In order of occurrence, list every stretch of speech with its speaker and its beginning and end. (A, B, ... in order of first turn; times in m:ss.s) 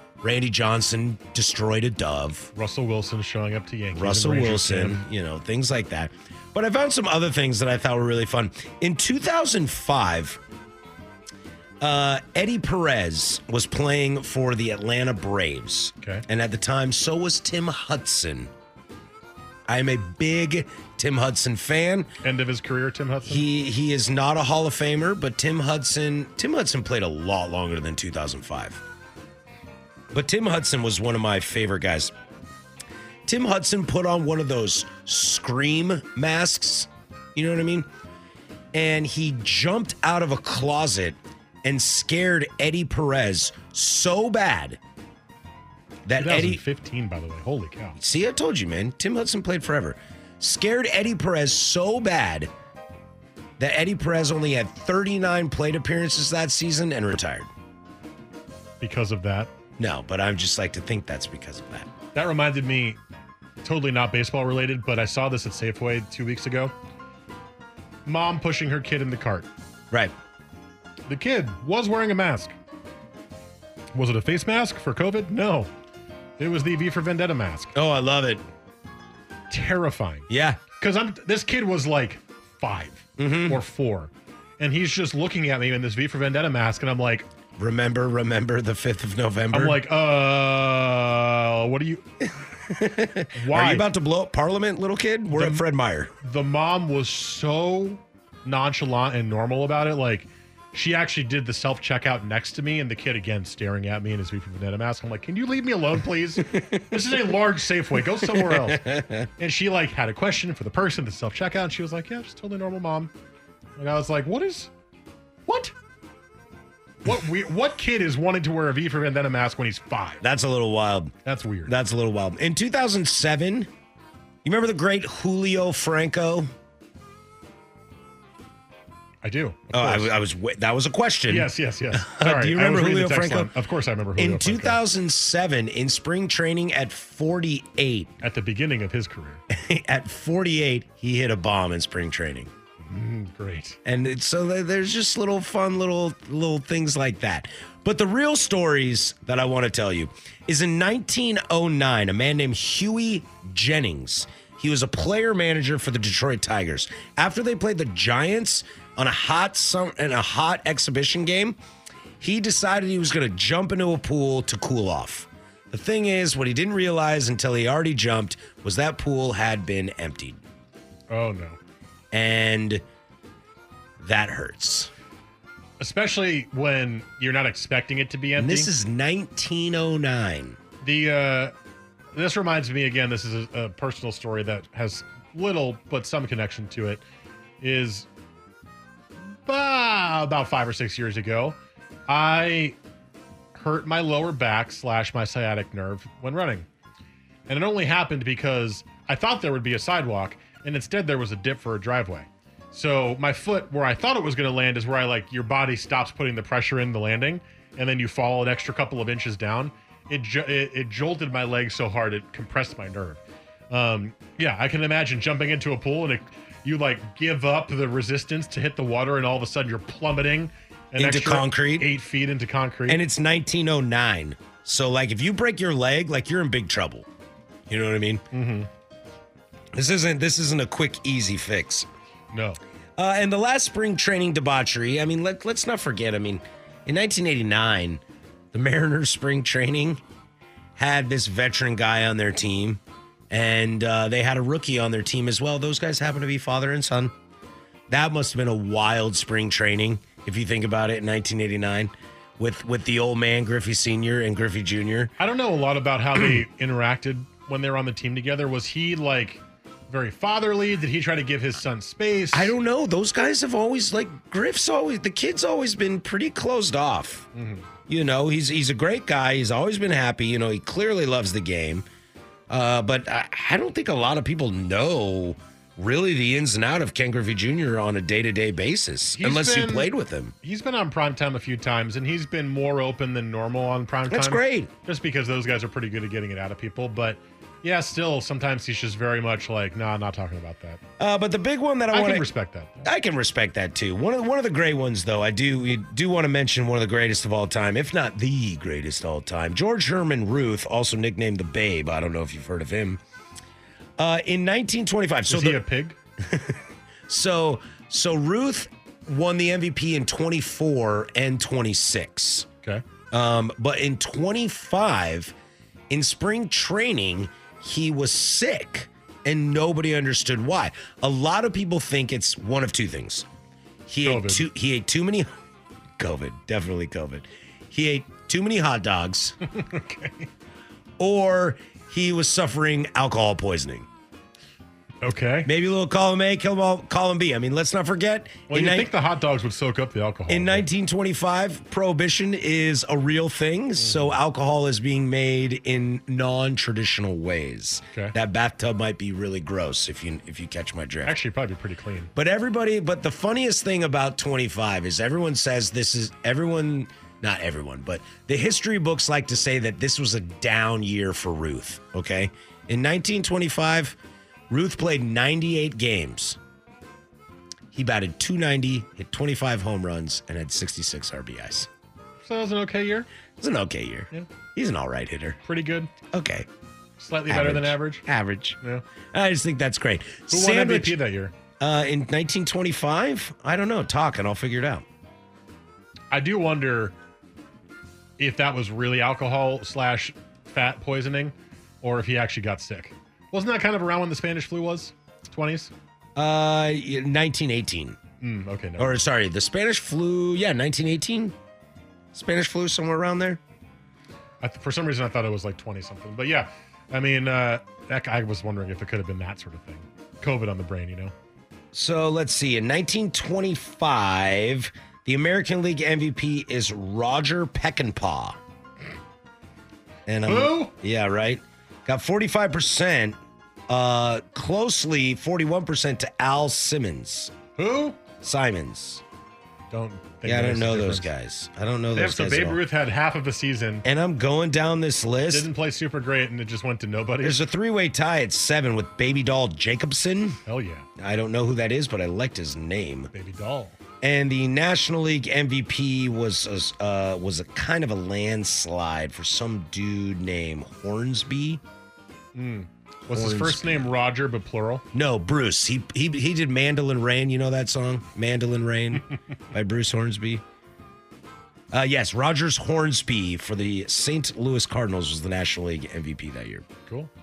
0:00.2-0:02.5 A
0:02.5-0:05.0 B
0:03.9-0:10.4 A
0:11.8-0:18.5 A
0:19.7-0:22.1 A
0:22.2-0:23.4 B
0:23.2-0:28.8 A
0:30.1-0:32.1 A
0:33.2-0:37.9 A
0:38.7-0:44.8 A
0:46.0-0:46.6 A
0:46.2-0:48.0 B
0:48.0-0:52.5 A
0:53.6-0:57.5 A
0:58.8-0:59.5 B
0:59.8-1:01.9 A
1:02.1-1:03.0 B
1:03.6-1:06.7 B
1:08.0-1:09.5 B
1:11.1-1:12.5 B
1:13.9-1:15.7 B
1:16.4-1:17.7 B
1:17.7-1:18.4 A
1:19.5-1:20.2 B
1:20.3-1:20.6 A
1:20.8-1:27.3 B
1:23.2-1:23.6 A
1:27.6-1:29.8 A
1:29.5-1:32.0 B
1:32.6-1:36.1 A
1:33.3-1:33.8 B
1:35.3-1:35.6 B
1:36.2-1:48.8 B
1:46.4-1:47.4 A
1:48.2-1:49.3 A
1:49.4-1:53.1 B
1:53.8-1:54.7 B
1:55.5-1:55.7 B
1:57.0-2:00.2 B
2:00.2-2:01.1 A
2:01.2-2:01.7 B
2:01.7-2:03.7 A
2:04.4-2:06.5 A
2:09.2-2:10.1 B
2:09.7-2:13.5 A
2:11.3-2:14.8 B
2:14.2-2:18.1 A
2:18.2-2:19.4 B
2:19.5-2:22.5 A
2:22.8-2:23.8 B
2:23.8-2:41.6 A
2:42.2-2:50.4 A
2:51.1-2:51.6 B
2:52.1-2:52.8 A
2:54.0-2:54.9 A
2:55.8-2:58.7 B
2:58.4-3:00.6 A
3:00.8-3:01.5 B
3:02.1-3:07.0 B
3:07.6-3:08.1 B
3:09.4-3:11.6 B
3:12.1-3:12.8 B
3:13.6-3:16.6 B
3:17.5-3:43.0 B
3:41.0-3:41.9 A
3:42.9-3:47.0 A
3:47.7-3:48.2 A
3:48.3-3:48.7 B
3:49.7-3:51.9 A
3:52.3-3:52.6 B
3:53.0-3:58.0 A
3:58.5-4:00.0 A
4:00.8-4:07.1 A
4:07.9-4:15.1 A
4:15.2-4:22.5 B
4:22.3-4:27.3 A
4:27.3-4:27.6 B
4:27.9-4:31.8 A
4:32.5-4:40.3 A
4:39.2-4:50.8 B
4:44.1-4:44.7 A
4:51.0-4:52.3 A
4:51.9-4:52.9 B
4:52.8-5:03.0 A
5:04.0-5:05.6 A
5:05.2-5:06.0 B
5:06.2-5:12.5 A
5:13.1-5:15.3 A
5:15.9-5:23.3 A
5:23.9-5:25.3 A
5:24.0-5:24.5 B
5:26.0-5:29.4 A
5:29.5-5:30.3 B
5:31.0-5:33.9 A
5:35.0-5:35.5 B
5:35.4-5:38.9 A
5:38.5-5:40.7 B
5:40.3-5:51.2 A
5:43.8-5:44.2 B
5:51.0-5:52.1 B
5:52.1-6:04.0 A
6:04.5-6:06.4 A
6:07.7-6:11.7 A
6:12.2-6:13.1 B
6:13.4-6:15.4 A
6:15.4-6:15.9 B
6:16.1-6:16.5 A
6:17.0-6:18.0 B
6:17.3-6:18.6 A
6:19.1-6:21.0 A
6:20.3-6:21.3 B
6:21.6-6:24.8 A
6:26.1-6:26.9 B
6:28.2-6:35.7 B
6:36.2-6:38.0 A
6:38.2-6:39.0 B
6:38.8-6:41.3 A
6:42.1-6:43.4 A
6:44.4-6:51.1 B
6:51.7-6:58.4 A
7:00.1-7:03.2 A
7:00.2-7:00.7 B
7:03.7-7:07.3 A
7:07.6-7:08.0 B
7:08.2-7:09.0 A
7:09.7-7:11.1 B
7:10.2-7:12.6 A
7:11.9-7:13.8 B
7:13.8-7:15.5 A
7:15.3-7:17.4 B
7:17.2-7:20.4 A
7:20.4-7:20.9 B
7:21.0-7:23.1 A
7:23.1-7:23.8 B
7:24.0-7:31.6 A
7:32.4-7:34.8 B
7:33.1-7:33.9 A
7:34.9-7:40.4 A
7:41.7-7:46.6 A